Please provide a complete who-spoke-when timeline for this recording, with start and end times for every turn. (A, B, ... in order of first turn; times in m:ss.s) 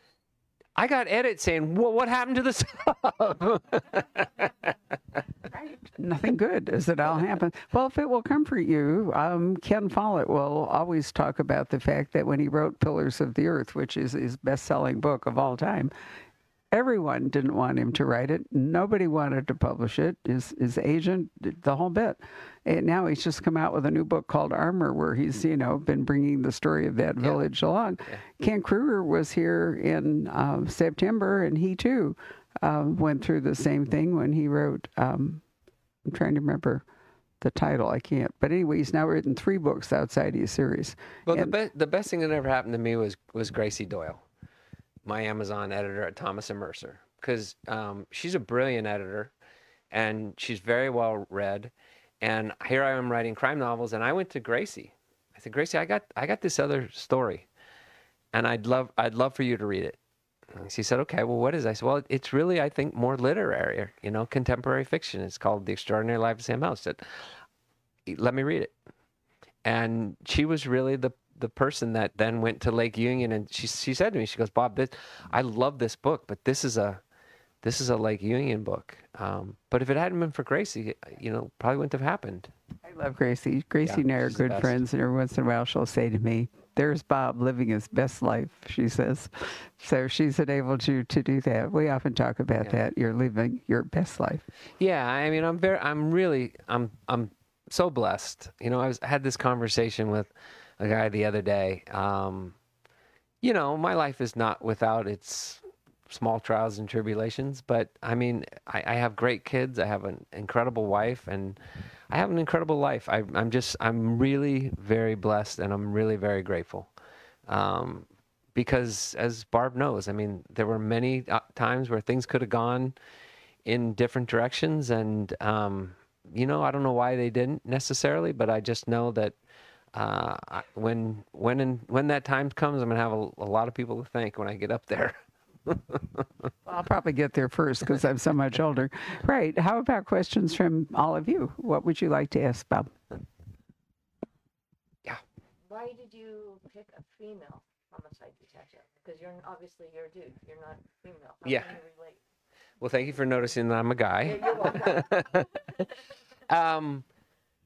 0:00.8-0:04.5 A
0:05.8-0:15.9 B
0:16.7-0:35.4 B
0:36.0-0:36.8 B
0:37.4-0:41.5 B
0:41.2-0:44.2 A
0:45.0-0:49.3 A
0:49.9-0:57.4 A
0:58.3-1:00.0 A
1:00.5-1:07.0 A
1:08.1-1:08.7 A
1:09.6-1:17.0 A
1:17.6-1:22.5 A
1:22.8-1:34.4 B
1:23.8-1:24.8 A
1:34.8-1:42.5 A
1:43.4-1:51.6 A
1:52.1-1:56.9 A
1:57.5-2:02.9 A
2:03.6-2:09.3 A
2:09.9-2:16.3 A
2:16.6-2:22.9 B
2:25.6-2:32.2 C
2:31.4-2:31.8 A
2:32.8-2:35.5 A
2:34.2-2:35.8 C
2:36.5-2:37.0 A